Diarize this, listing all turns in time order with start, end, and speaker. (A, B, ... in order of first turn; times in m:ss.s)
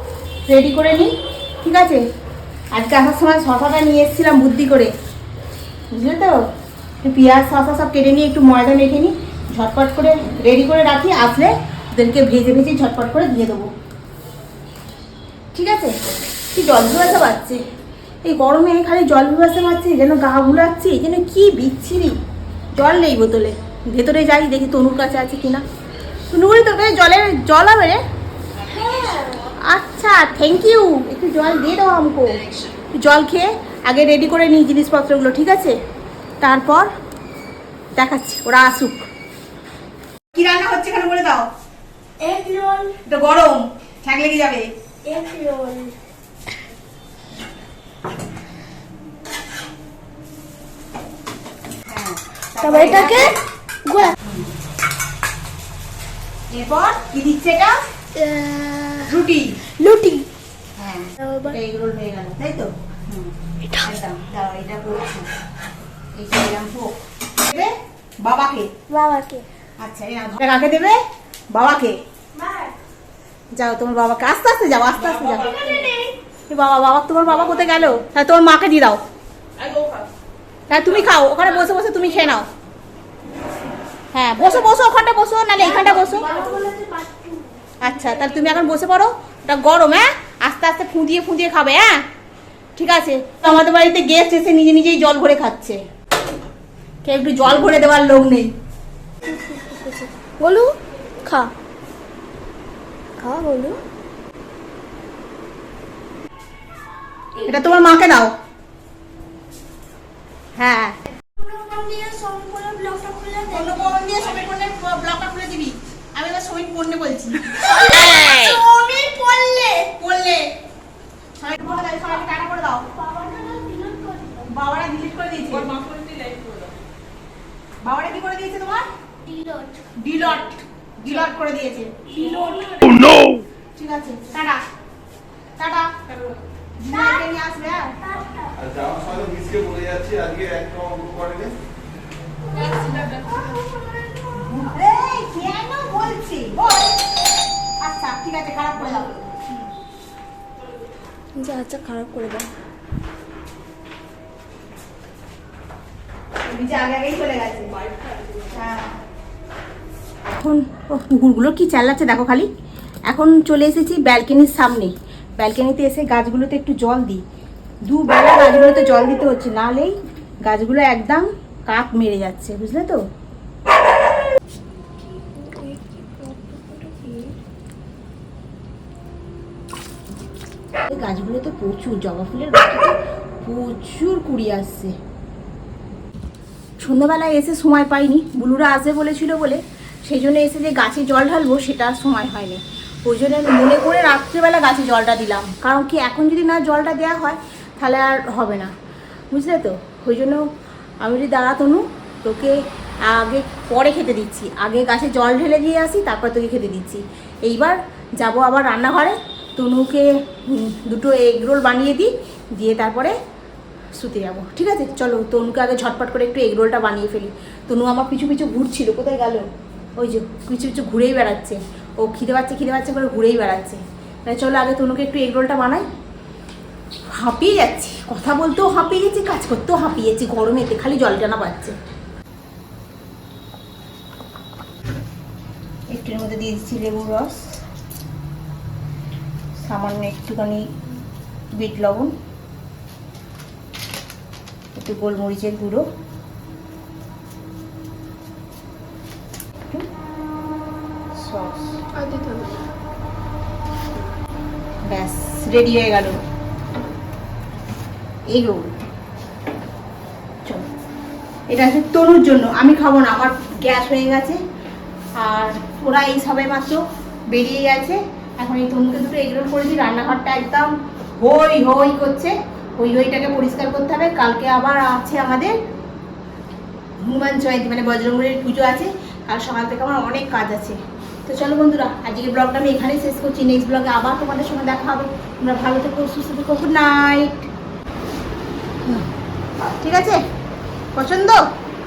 0:00.5-0:02.0 A
0:02.7-0:04.9 A
0:05.9-0:06.5 A
0:07.0-0:13.7 A
0:15.5-0:16.0 A
0:16.5-0:17.6 A
0:18.2-0:22.2 A
0:22.7-0:25.6 A
0:26.3-0:28.0 A
0:28.7-0:29.4 B
0:29.6-0:32.4 A
0:32.9-0:35.8 A
0:36.4-0:36.9 A
0:37.9-0:39.1 A
0:40.3-0:41.5 A
0:42.2-0:43.0 B
0:42.9-0:44.7 A
0:45.0-0:46.0 B
0:51.9-0:53.4 A
0:52.6-0:54.2 B
0:54.0-0:54.5 A
0:56.5-0:57.8 A
0:58.1-0:59.1 B
0:59.0-0:59.6 A
0:59.7-1:00.3 B
1:00.8-1:05.3 A
1:01.2-1:01.6 B
1:06.1-1:08.8 A
1:08.9-1:09.4 B
1:09.8-1:12.0 A
1:12.4-1:12.7 B
1:13.5-1:15.9 A
1:15.6-1:16.1 B
1:16.5-1:19.0 A
1:20.7-1:22.5 A
1:24.1-1:26.4 A
1:25.6-1:28.5 B
1:27.8-1:32.0 A
1:32.8-1:35.8 A
1:37.0-1:38.5 A
1:39.2-1:41.5 B
1:43.2-1:43.8 B
1:47.3-1:48.3 A
1:50.6-1:51.0 A
1:51.4-1:54.2 B
1:53.4-2:00.5 A
2:01.4-2:02.9 A
2:02.9-2:04.5 B
2:04.4-2:05.8 A
2:07.8-2:08.9 A
2:09.2-2:10.0 B
2:10.0-2:12.4 A
2:12.1-2:13.3 B
2:13.8-2:14.6 A
2:15.6-2:16.0 A
2:16.8-2:18.1 A
2:18.0-2:18.6 B
2:18.6-2:21.6 C
2:22.5-2:23.8 B
2:24.3-2:27.0 A
2:27.8-2:29.4 A
2:31.4-2:32.5 B
2:36.4-2:37.8 A
2:38.3-2:38.9 A
2:40.3-2:42.5 A
2:43.1-2:47.2 A
2:47.8-2:53.0 A
2:55.0-2:57.4 B
3:00.9-3:04.9 A
3:06.8-3:18.7 A
3:19.3-3:20.5 A
3:21.0-3:33.2 A
3:33.9-3:45.8 A
3:47.1-3:51.7 A
3:55.9-3:57.5 A
3:59.6-4:00.7 A
4:01.5-4:02.1 A
4:04.7-4:05.8 A
4:11.2-4:11.7 A
4:11.9-4:12.7 B
4:14.9-4:16.2 A
4:18.3-4:18.7 A
4:21.5-4:24.4 A
4:25.2-4:35.6 A
4:37.0-4:47.5 A
4:49.6-4:50.2 A
4:50.9-4:51.4 A